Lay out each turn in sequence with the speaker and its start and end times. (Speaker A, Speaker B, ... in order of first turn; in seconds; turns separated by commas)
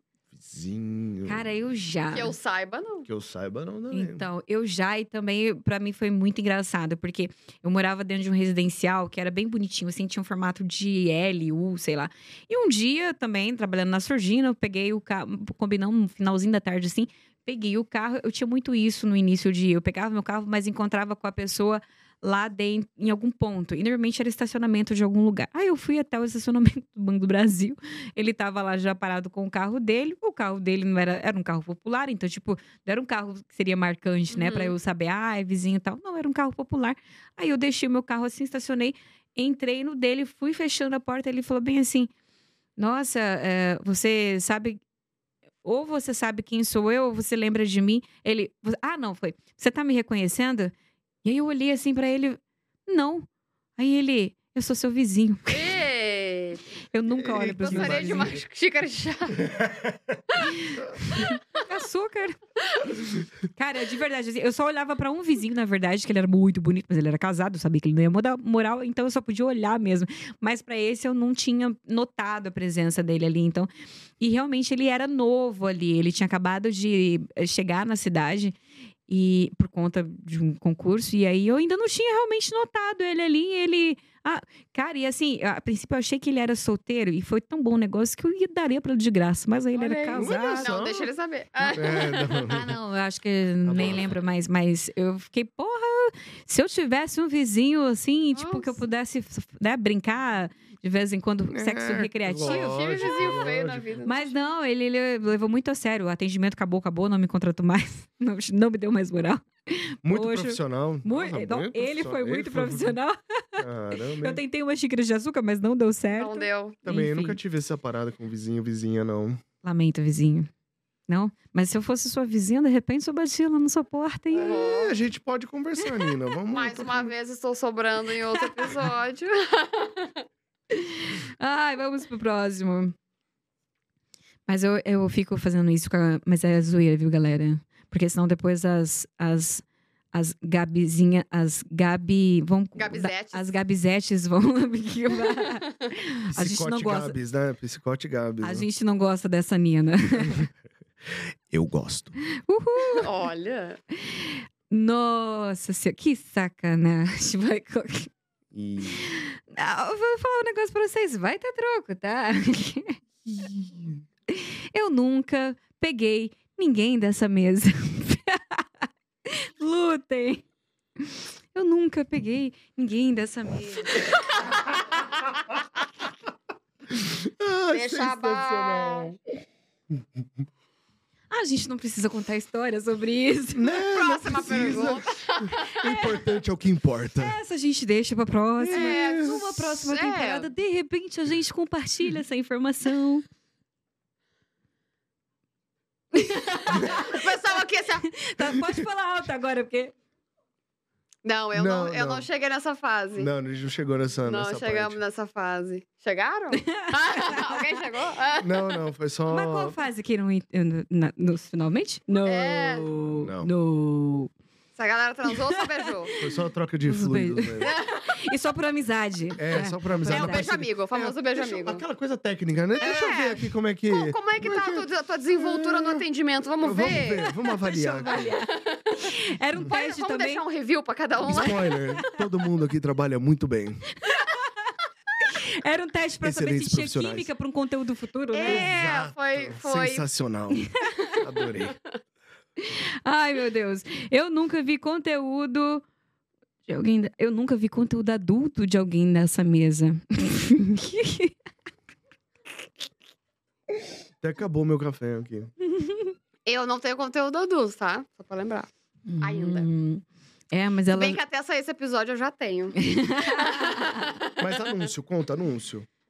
Speaker A: 0.3-1.5, Speaker B: 1.2-2.3, Speaker C: 2.1-3.1, Speaker A: 3.0-4.2, Speaker B: 3.9-42.1, Speaker C: 34.3-34.7, Speaker B: 42.8-44.8, Speaker B: 45.6-50.7, Speaker B: 51.2-55.8, Speaker C: 55.5-56.6, Speaker B: 56.9-58.4, Speaker A: 57.1-58.4, Speaker C: 57.6-59.4, Speaker A: 59.4-60.2, Speaker B: 60.4-62.4, Speaker B: 63.5-78.5, Speaker B: 79.1-90.7, Speaker C: 89.7-92.4, Speaker A: 90.1-91.1, Speaker B: 91.6-102.8, Speaker A: 91.7-92.7, Speaker A: 93.6-94.1, Speaker C: 98.3-98.8, Speaker A: 101.5-104.0, Speaker C: 102.4-104.3, Speaker B: 104.0-117.4, Speaker A: 110.0-113.0, Speaker A: 113.6-114.4, Speaker C: 116.1-116.8, Speaker A: 116.8-119.4, Speaker B: 119.6-120.5, Speaker B: 121.1-124.6, Speaker C: 124.3-125.0, Speaker A: 124.4-127.1, Speaker C: 126.5-130.2, Speaker B: 130.7-132.9, Speaker B: 134.5-147.2, Speaker C: 142.8-143.5, Speaker C: 145.2-145.9, Speaker A: 146.3-148.7, Speaker B: 148.4-150.5, Speaker A: 150.2-150.4, Speaker A: 151.1-152.2, Speaker B: 152.3-153.1, Speaker C: 152.9-153.8, Speaker B: 153.9-158.1, Speaker A: 158.5-159.0, Speaker B: 158.9-163.7, Speaker B: 164.3-170.4, Speaker B: 171.0-174.0, Speaker A: 176.9-179.2, Speaker C: 177.7-179.1, Speaker B: 181.3-183.7, Speaker A: 183.5-187.4, Speaker C: 183.8-186.0, Speaker B: 185.8-186.2, Speaker B: 187.2-193.2, Speaker A: 188.6-189.4, Speaker C: 188.7-190.5, Speaker B: 196.1-197.1, Speaker C: 196.7-198.1, Speaker B: 198.0-199.9, Speaker A: 198.5-198.7, Speaker C: 201.2-203.3, Speaker A: 201.5-202.2, Speaker A: 203.2-205.0, Speaker C: 204.2-208.8, Speaker B: 206.6-207.7, Speaker A: 208.4-209.8, Speaker B: 209.3-214.3, Speaker C: 212.2-212.9, Speaker A: 213.2-213.5, Speaker C: 214.8-216.1, Speaker B: 215.3-216.2, Speaker A: 216.2-217.7, Speaker B: 216.8-220.5, Speaker C: 217.6-218.1, Speaker A: 219.4-226.0, Speaker C: 220.1-221.8, Speaker C: 222.8-227.3, Speaker A: 226.6-228.3, Speaker B: 227.4-230.4, Speaker C: 228.2-229.1, Speaker C: 229.7-231.7, Speaker A: 231.2-233.8, Speaker B: 231.3-232.2, Speaker B: 234.0-238.9, Speaker A: 236.2-237.3, Speaker C: 238.3-240.1, Speaker A: 238.4-241.8, Speaker B: 240.5-241.1, Speaker B: 242.6-245.8, Speaker B: 246.7-251.3, Speaker A: 254.2-255.5, Speaker B: 255.7-256.1, Speaker C: 256.4-258.7, Speaker B: 259.1-261.2, Speaker C: 259.2-259.7, Speaker C: 260.9-264.5, Speaker B: 262.8-264.1, Speaker A: 264.4-265.9